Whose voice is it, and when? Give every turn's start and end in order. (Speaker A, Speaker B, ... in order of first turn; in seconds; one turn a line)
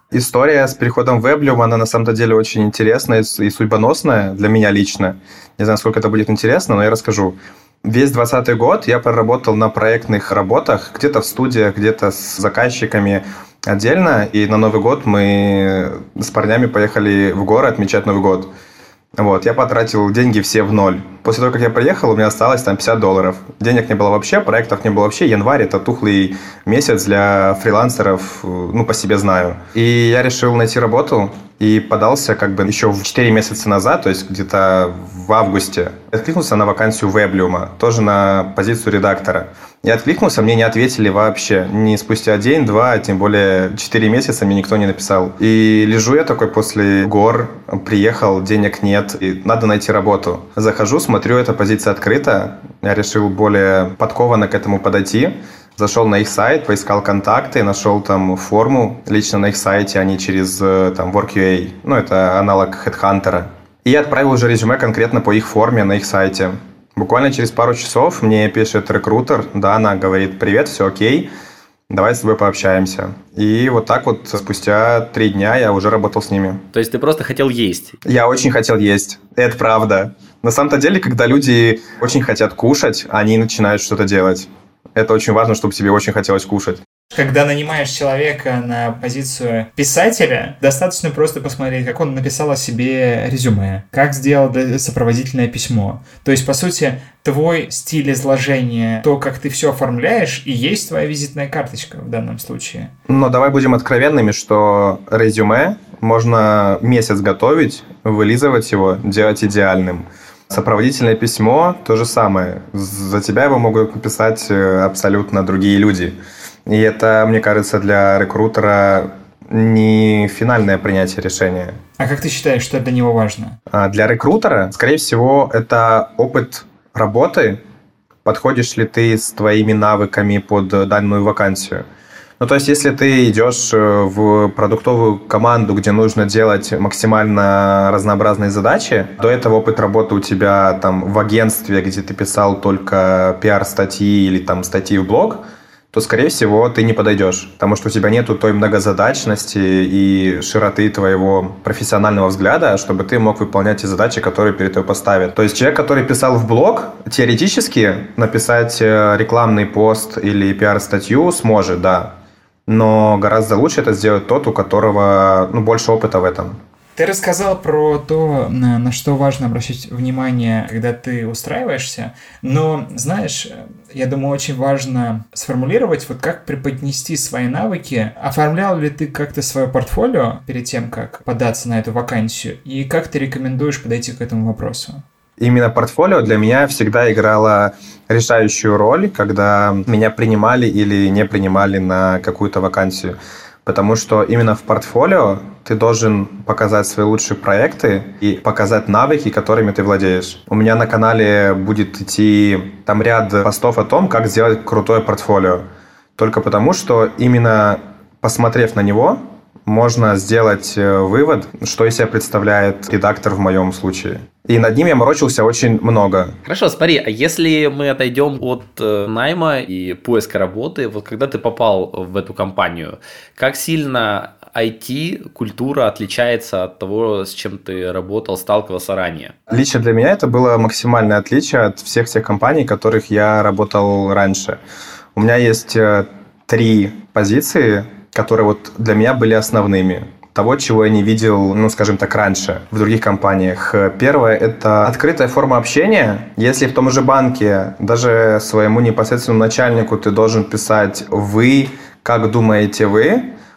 Speaker A: 0.1-18.5
Speaker A: 19.2-71.3
Speaker A: 71.9-76.6
Speaker B: 76.7-78.0
Speaker A: 78.0-86.8
Speaker C: 87.1-102.9
Speaker A: 103.1-121.8
Speaker C: 122.0-123.6
Speaker A: 123.7-127.6
Speaker A: 128.2-131.8
Speaker A: 132.4-162.2
Speaker A: 162.7-166.6
Speaker C: 167.0-185.0
Speaker A: 185.4-205.7
Speaker A: 206.2-216.4
Speaker B: 216.4-229.3
Speaker A: 229.5-234.6
Speaker A: 235.2-253.3